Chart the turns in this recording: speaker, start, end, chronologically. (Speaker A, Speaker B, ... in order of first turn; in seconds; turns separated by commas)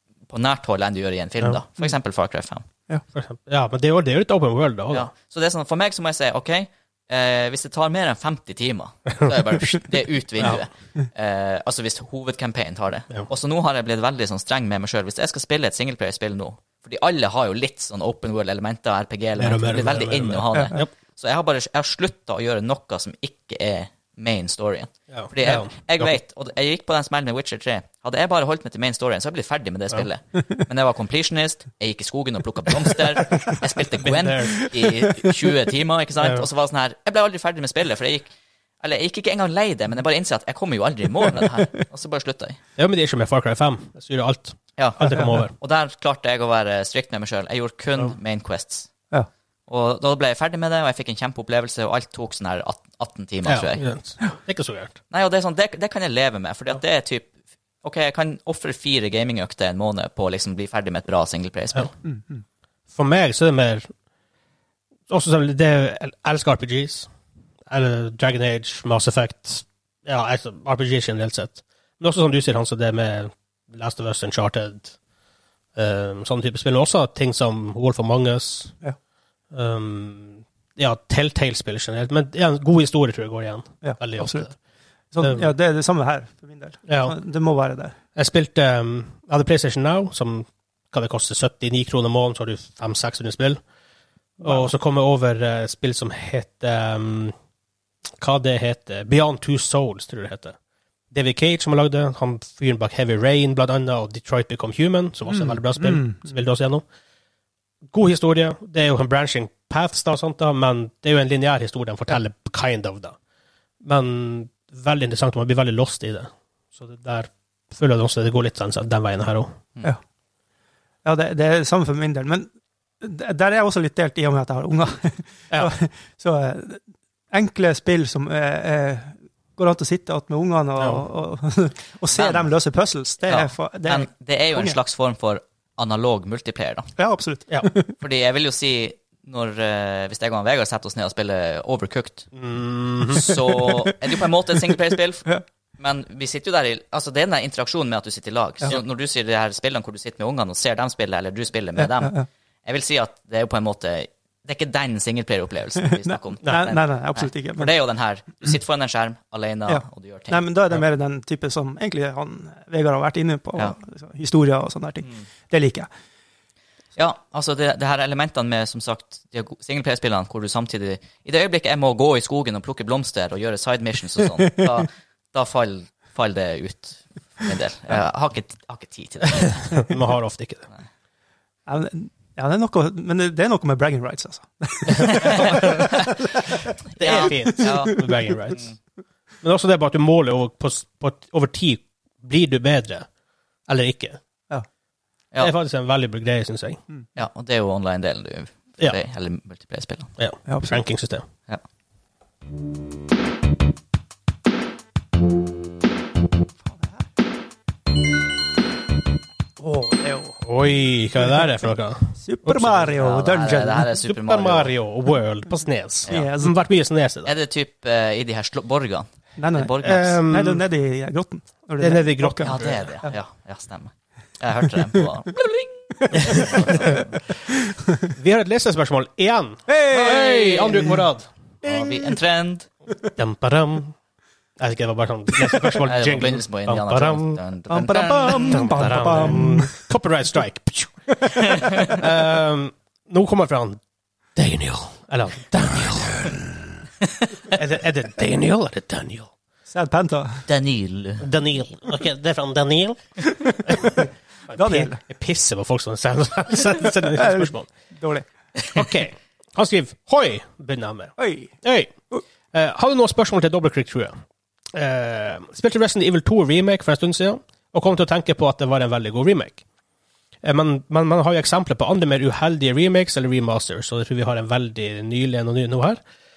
Speaker A: 0.3-2.6, Speaker B: 3.1-5.1, Speaker A: 4.9-38.3, Speaker B: 19.4-20.9, Speaker B: 25.1-26.1, Speaker B: 34.0-34.7, Speaker B: 36.2-36.4, Speaker A: 38.8-42.6, Speaker B: 42.8-45.5, Speaker A: 44.8-48.9, Speaker A: 49.7-53.8, Speaker B: 53.5-55.0, Speaker A: 55.1-57.3, Speaker A: 57.8-61.9, Speaker C: 62.0-62.4, Speaker B: 62.9-63.9, Speaker B: 65.1-67.1, Speaker B: 67.7-75.0, Speaker B: 75.7-78.7, Speaker B: 79.5-84.5, Speaker C: 83.8-84.5, Speaker C: 85.1-88.0, Speaker B: 85.2-85.5, Speaker B: 86.9-87.2, Speaker B: 88.1-93.6, Speaker B: 94.4-97.3, Speaker C: 94.4-94.7, Speaker B: 98.2-100.5, Speaker B: 101.1-106.8, Speaker C: 105.3-106.2, Speaker B: 107.9-113.2, Speaker B: 113.8-119.5, Speaker C: 121.0-122.5, Speaker C: 123.0-134.8, Speaker B: 130.8-131.0, Speaker A: 132.1-132.5, Speaker A: 133.2-136.9, Speaker C: 137.0-137.9, Speaker A: 138.0-142.3, Speaker B: 142.3-143.3, Speaker A: 143.1-160.4, Speaker C: 143.6-144.0, Speaker C: 151.8-152.2, Speaker C: 156.4-157.7, Speaker C: 159.7-165.9, Speaker A: 166.9-179.7, Speaker B: 179.6-180.7, Speaker C: 181.7-185.9, Speaker A: 185.1-186.1, Speaker B: 185.3-185.9, Speaker A: 186.9-188.7, Speaker B: 187.0-188.7, Speaker C: 187.2-188.1, Speaker B: 189.4-193.1, Speaker B: 193.7-194.2, Speaker B: 195.4-196.8, Speaker A: 197.2-200.1, Speaker B: 200.2-201.2, Speaker C: 200.5-200.8, Speaker C: 206.6-207.0, Speaker B: 209.7-212.8, Speaker C: 212.2-213.9, Speaker A: 212.8-214.7, Speaker B: 214.1-217.3, Speaker C: 216.1-216.5, Speaker A: 217.2-220.2, Speaker C: 219.4-223.1, Speaker B: 219.8-220.6, Speaker B: 221.8-222.8, Speaker A: 222.4-227.2, Speaker C: 226.1-227.0, Speaker B: 228.1-231.3, Speaker C: 229.7-231.0, Speaker A: 229.9-230.9, Speaker A: 231.6-232.7, Speaker B: 233.2-233.9, Speaker B: 234.6-237.4, Speaker A: 235.8-239.3, Speaker C: 237.7-239.7, Speaker B: 238.2-243.8, Speaker B: 244.3-246.4, Speaker B: 247.5-249.3, Speaker C: 249.7-250.4, Speaker A: 250.5-251.2, Speaker B: 251.2-253.0, Speaker B: 253.6-257.7, Speaker C: 254.5-255.0, Speaker C: 257.1-258.3, Speaker B: 258.7-261.9, Speaker C: 261.2-261.5, Speaker B: 262.5-264.1, Speaker B: 264.7-269.6, Speaker B: 270.4-276.0